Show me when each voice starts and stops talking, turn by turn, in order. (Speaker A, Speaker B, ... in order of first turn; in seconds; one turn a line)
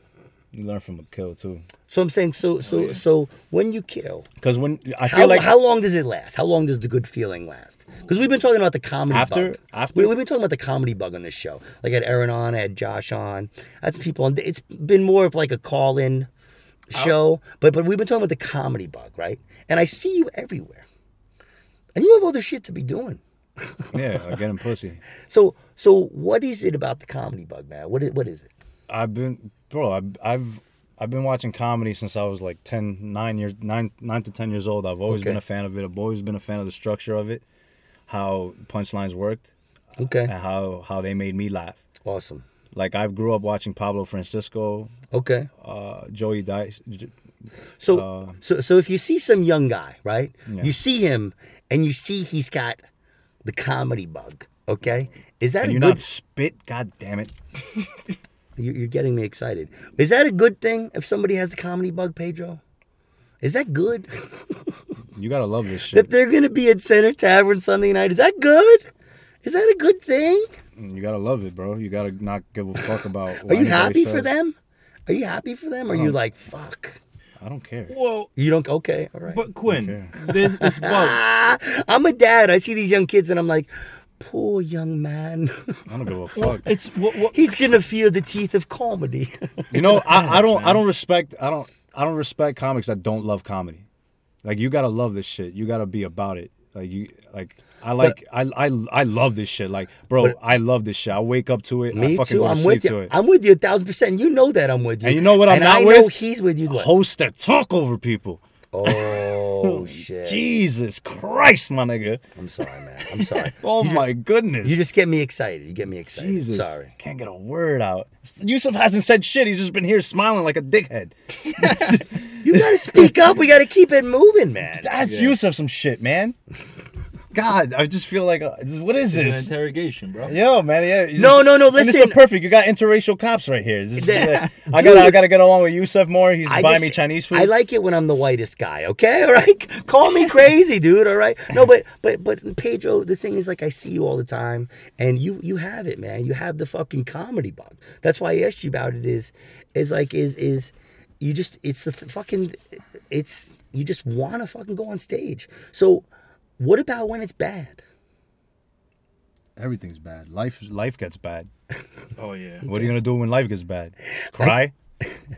Speaker A: 0.5-1.6
Speaker B: 1.9-4.3
Speaker C: 2.6-3.0
Speaker A: 4.4-5.5
Speaker B: 5.0-16.3
Speaker A: 9.1-10.2
Speaker B: 16.9-20.9
Speaker B: 21.9-23.2
Speaker A: 23.9-25.0
Speaker B: 25.3-28.5
Speaker A: 28.9-37.4
Speaker B: 35.1-35.4
Speaker A: 38.1-39.5
Speaker B: 40.0-40.3
Speaker A: 40.2-41.8
Speaker B: 42.0-42.4
Speaker A: 42.7-44.9
Speaker B: 45.1-45.5
Speaker A: 45.6-47.1
Speaker B: 47.8-52.8
Speaker A: 47.9-48.4
Speaker A: 50.5-50.8
Speaker B: 53.4-56.0
Speaker A: 55.6-57.3
Speaker B: 58.6-62.6
Speaker B: 63.4-64.6
Speaker A: 65.1-66.1
Speaker B: 65.9-68.9
Speaker B: 69.4-70.5
Speaker A: 70.8-74.3
Speaker B: 73.4-74.5
Speaker B: 75.1-77.0
Speaker A: 75.9-76.2
Speaker A: 77.4-77.9
Speaker C: 77.9-78.3
Speaker B: 78.4-79.4
Speaker C: 79.3-81.2
Speaker A: 79.7-80.1
Speaker B: 80.3-85.8
Speaker A: 85.9-86.7
Speaker C: 86.4-87.4
Speaker B: 87.3-90.3
Speaker A: 89.7-93.8
Speaker C: 90.3-90.8
Speaker A: 94.4-103.1
Speaker B: 101.9-106.9
Speaker A: 105.0-112.2
Speaker B: 108.7-110.4
Speaker B: 112.4-114.1
Speaker A: 113.3-114.8
Speaker B: 114.6-116.9
Speaker A: 116.1-123.2
Speaker C: 121.5-122.0
Speaker B: 122.4-124.9
Speaker A: 124.8-126.3
Speaker C: 125.0-125.4
Speaker A: 127.3-129.5
Speaker C: 129.1-130.4
Speaker A: 130.2-137.5
Speaker B: 131.2-132.2
Speaker B: 134.0-135.2
Speaker C: 134.1-134.4
Speaker B: 136.4-152.6
Speaker B: 153.1-156.1
Speaker B: 156.6-157.8
Speaker A: 159.6-161.5
Speaker C: 162.2-162.7
Speaker A: 162.6-164.7
Speaker B: 164.3-164.6